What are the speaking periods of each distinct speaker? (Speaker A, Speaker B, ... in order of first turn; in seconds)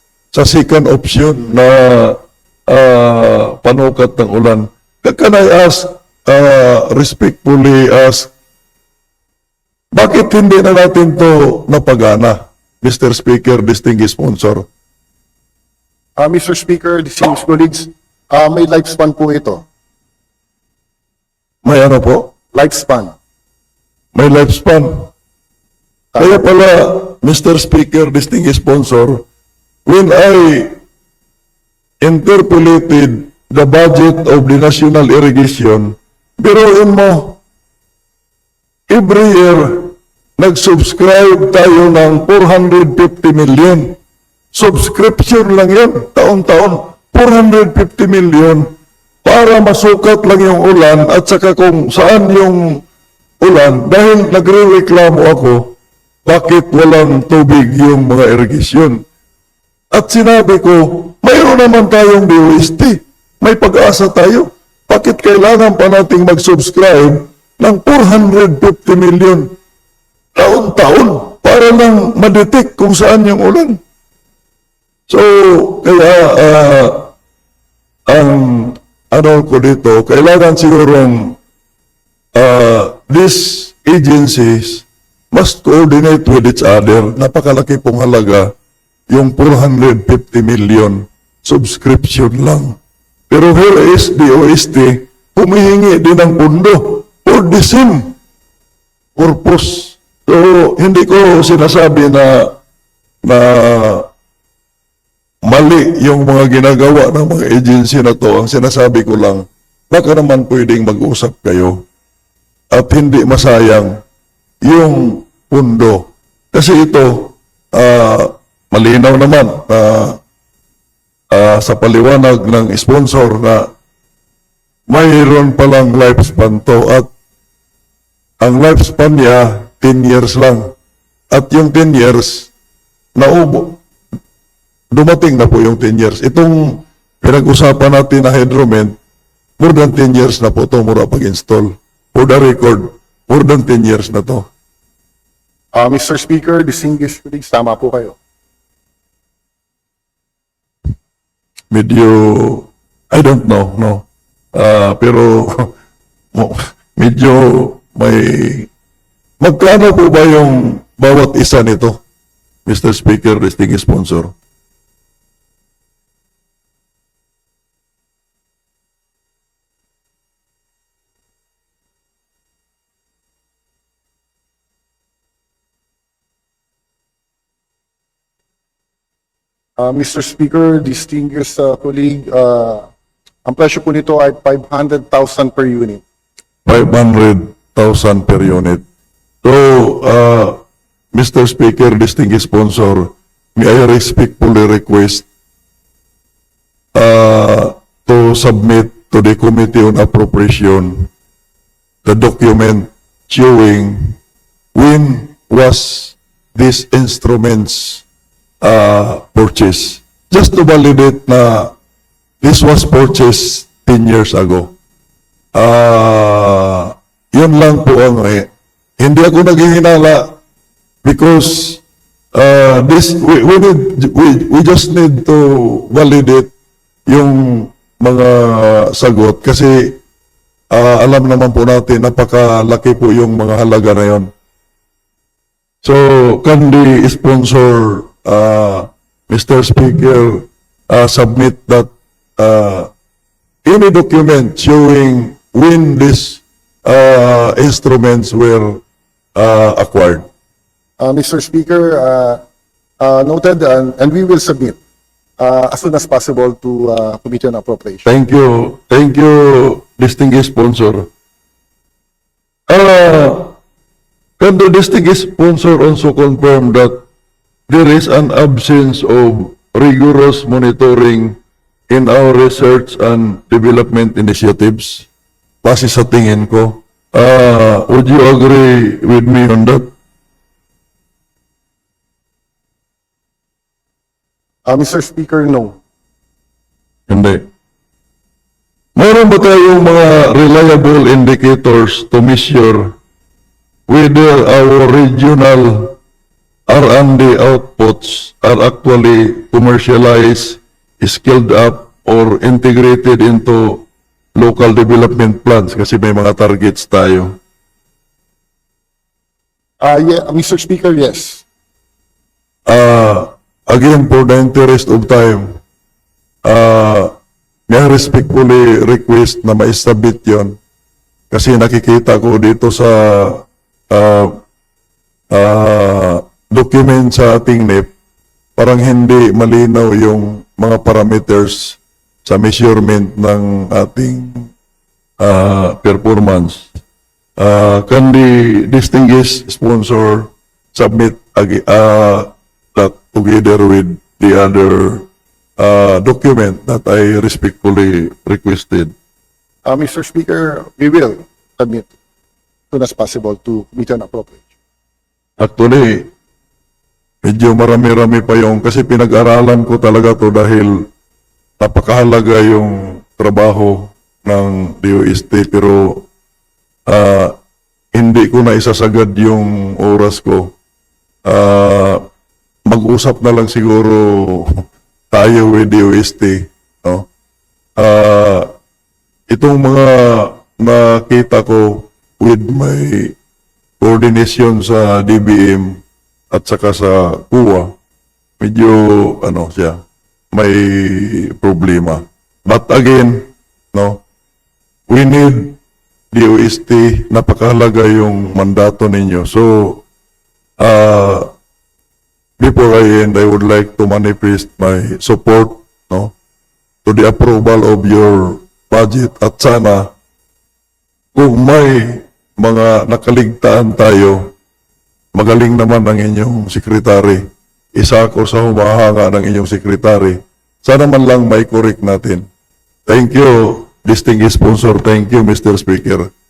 Speaker A: 0.3-8.3, 9.9-14.7, 21.6-22.3, 24.1-25.1, 26.2-29.2, 29.9-30.7, 32.0-37.4, 38.9-44.0, 44.5-48.7, 49.2-52.8, 53.4-59.0, 59.9-69.5, 70.3-73.8, 75.1-77.1, 78.1-81.4, 82.3-88.5, 89.1-92.8, 93.3-98.1, 99.2-102.5, 103.2-104.1, 105.5-111.8, 112.7-113.9, 114.7-120.2, 121.3-123.7, 124.9-127.1, 128.4-130.7, 131.3-132.5, 133.1-133.8, 134.9-138.9, 139.6-144.5, 151.7-155.7, 156.3-158.7, 159.4-162.0, 162.7-164.3, 186.7-188.8, 189.4-190.6, 191.1-195.3, 196.9-201.1, 202.0-204.2, 204.7-208.0, 208.6-211.7, 212.4-214.7, 215.5-220.3, 221.0-221.8, 222.3-226.5, 227.1-230.0, 230.7-234.3, 235.8-242.9, 243.6-248.8, 249.3-250.2, 258.0-261.1, 262.7-263.5, 264.4-267.0, 267.7-271.4, 271.9-275.1, 275.6-279.9, 287.1-287.4, 288.9-292.9, 293.9-296.0, 296.7-307.4, 312.7-315.5, 316.4-317.1, 317.7-320.5, 321.3-324.4, 325.3-327.9, 328.6-334.5, 335.2-336.7, 337.4-345.1, 345.6-348.9, 355.4-356.1, 357.2-360.9, 361.6-366.1, 366.9-367.4, 367.9-370.5, 371.3-372.0, 372.7-377.0, 377.8-378.5, 379.3-383.1, 383.8-385.8, 386.3-387.7, 388.4-389.8, 390.3-394.0, 394.9-395.6, 396.1-399.8, 400.6-401.3, 402.4-406.1, 406.8-409.9, 411.1-414.3, 415.1-417.2, 417.8-422.2, 422.9-426.1
Speaker B: 16.2-19.6, 22.5-23.1, 145.7-148.2, 179.8-182.8, 183.4-186.0, 251.0-252.4, 253.0-254.8, 255.4-258.1, 284.7-285.8, 309.8-311.4, 349.7-351.9, 352.7-354.5